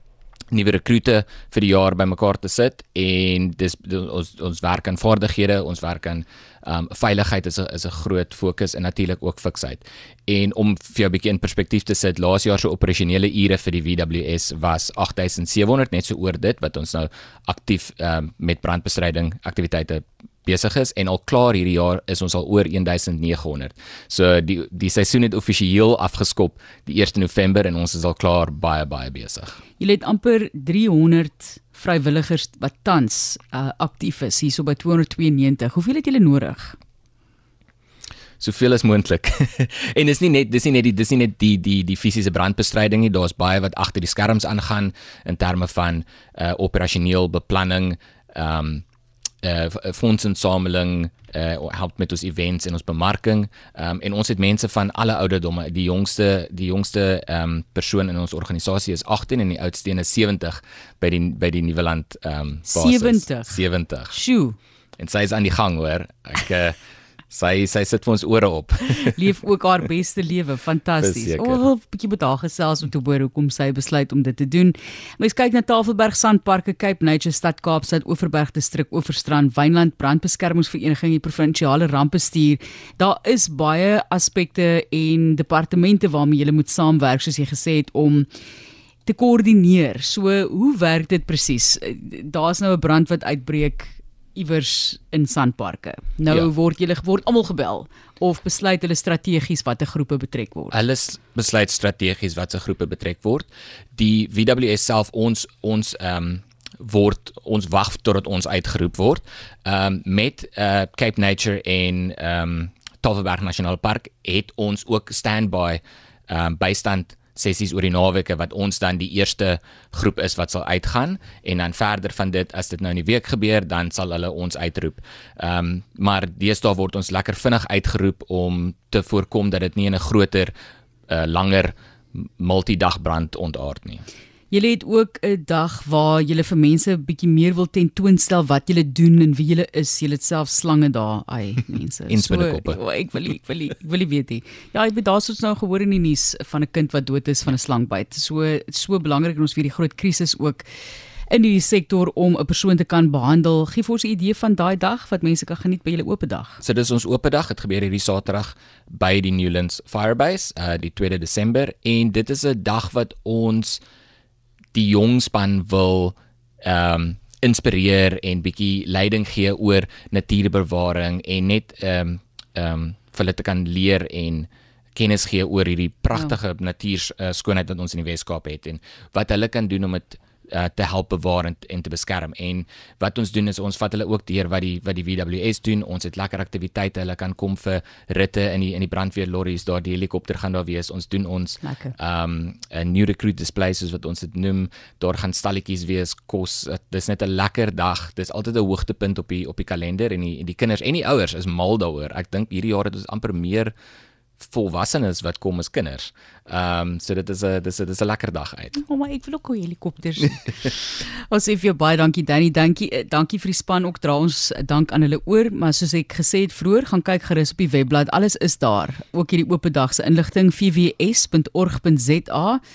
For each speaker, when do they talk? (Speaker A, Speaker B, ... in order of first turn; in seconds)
Speaker A: 0.5-29.6, 38.4-48.9, 49.4-64.2, 65.0-66.8, 67.3-69.2, 71.0-71.6, 100.7-130.5, 131.1-134.0, 142.1-142.8, 156.6-163.8, 164.7-203.7, 204.4-208.8
Speaker B: 29.8-36.8, 62.7-63.6, 64.1-64.6, 69.1-88.3, 89.1-100.8, 134.5-150.7, 151.3-156.6, 191.6-191.9, 208.8-222.6